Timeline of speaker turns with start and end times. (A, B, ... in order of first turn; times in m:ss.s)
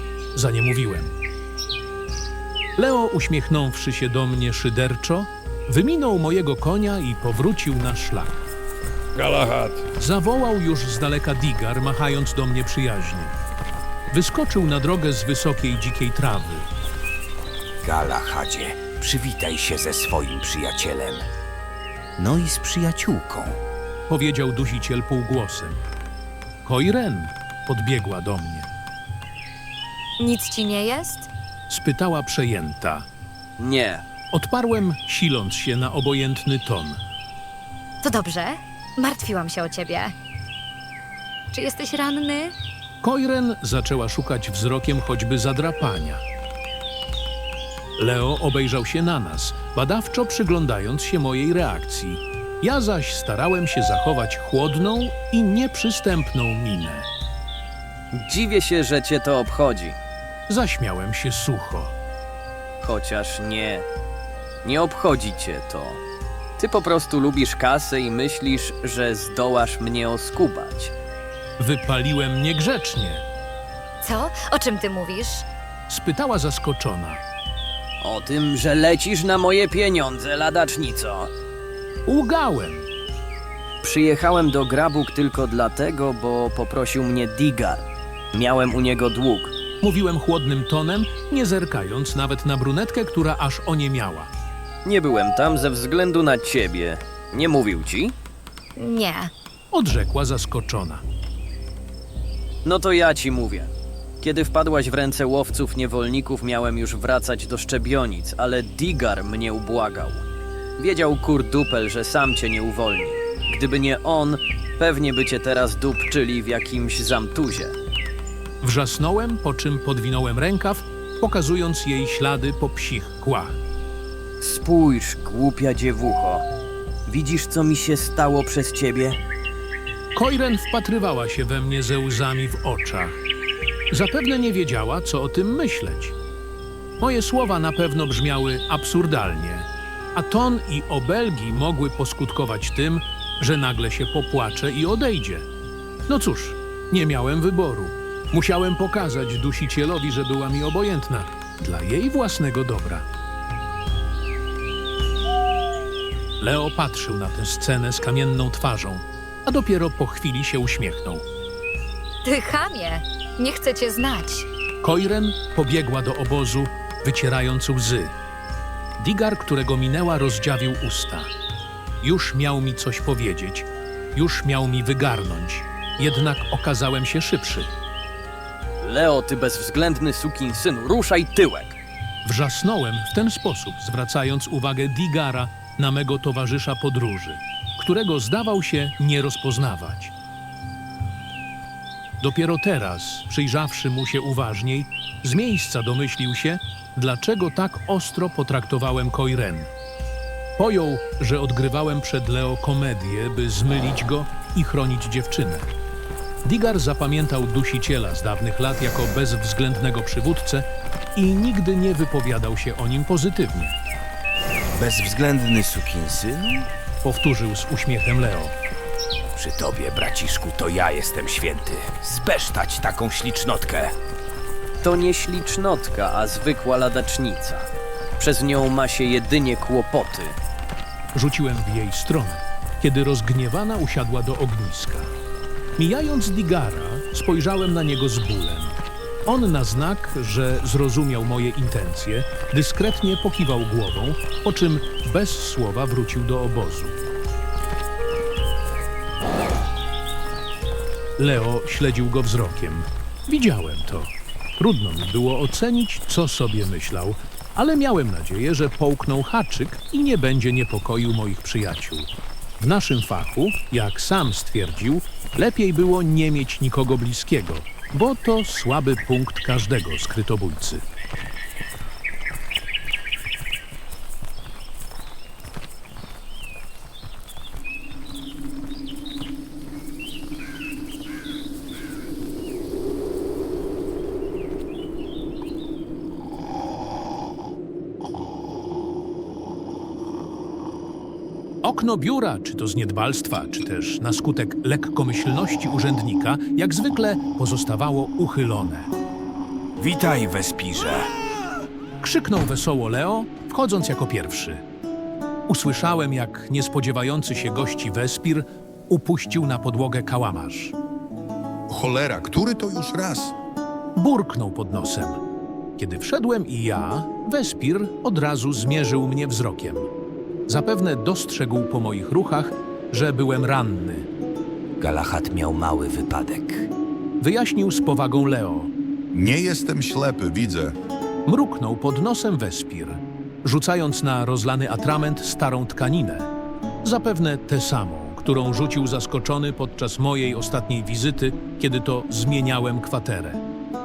0:00.3-0:01.1 A
0:02.8-0:08.4 A
0:10.0-0:13.4 A
0:14.1-0:16.7 A
0:17.8-0:21.3 B
0:22.2-0:23.6 B
0:24.1-0:25.8 A
0:26.6-0:28.7 A
0:30.2-0:31.3 C
0:31.7-0:33.1 A
0:33.6-0:34.0 D
0:34.3-0:37.0 A
0:38.0-0:40.1 C
0:41.5-0:42.5 C
0:43.0-0:46.2 A
0:48.0-0:57.1 A
0:58.1-1:00.0 D
1:00.5-1:01.9 A
1:02.8-1:03.9 D
1:04.6-1:06.0 D
1:06.6-1:10.9 D
1:11.6-1:13.2 A
1:14.0-1:15.4 C
1:15.9-1:17.2 A
1:18.0-1:21.3 D
1:22.1-1:22.9 A
1:23.8-1:29.5 D
1:29.8-1:34.3 A
1:34.8-1:38.1 D
1:38.8-1:39.3 C
1:39.7-1:41.0 A
1:42.6-1:43.7 D
1:44.2-1:50.2 D
1:50.8-1:57.7 D
1:58.6-2:03.6 A
2:04.4-2:06.4 D
2:07.1-2:09.2 D
2:10.2-2:13.2 A
2:13.9-2:16.2 A
2:17.0-2:25.5 A
2:26.1-2:33.1 A
2:36.4-2:41.2 A
2:42.2-2:44.5 C
2:44.8-2:48.1 A
2:49.0-2:51.3 A
2:52.0-2:57.7 A
2:58.8-3:01.8 D
3:02.2-3:10.1 A
3:12.2-3:19.7 A
3:20.6-3:25.7 A
3:26.4-3:33.8 A
3:34.7-3:36.7 B
3:37.0-3:38.5 A
3:39.4-3:44.0 B
3:44.8-3:50.4 D
3:51.2-3:55.1 A
3:55.8-4:07.0 A
4:11.2-4:30.8 A
4:51.6-4:58.9 A
4:59.8-5:01.1 B
5:02.0-5:04.6 A
5:05.5-5:10.8 A
5:11.7-5:13.3 E
5:14.0-5:15.2 A
5:15.8-5:19.9 A
5:20.5-5:24.1 A
5:24.8-5:26.7 B
5:27.2-5:28.7 A
5:29.1-5:30.8 E
5:31.3-5:36.3 A
5:36.8-5:43.4 A